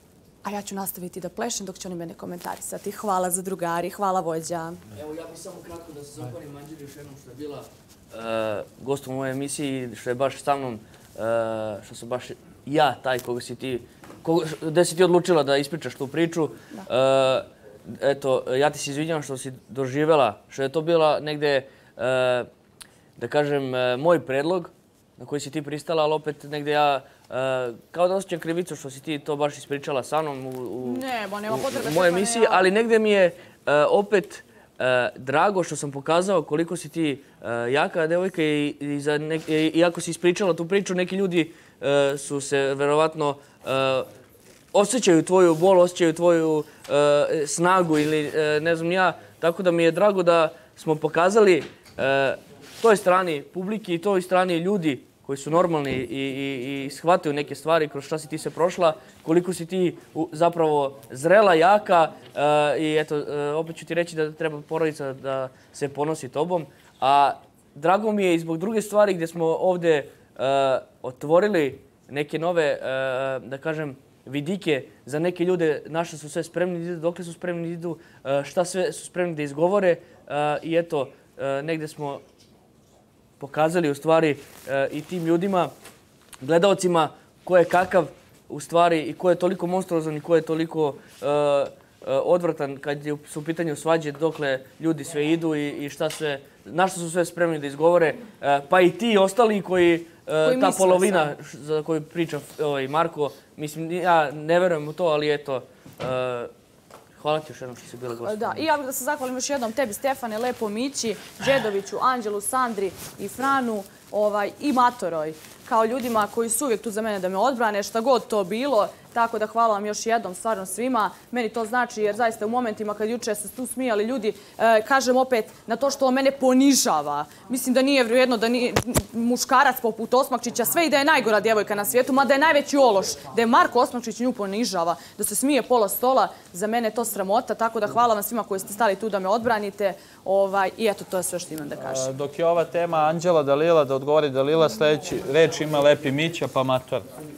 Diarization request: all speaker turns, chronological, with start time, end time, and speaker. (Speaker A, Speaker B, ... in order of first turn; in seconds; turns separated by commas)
Speaker A: 0.4-4.8, Speaker B: 4.9-22.5, Speaker B: 23.2-44.1, Speaker A: 30.8-32.6, Speaker B: 44.7-82.2, Speaker B: 83.4-85.7, Speaker B: 86.4-106.5, Speaker A: 100.4-101.3, Speaker B: 107.2-108.6, Speaker A: 108.2-142.1, Speaker C: 141.8-147.1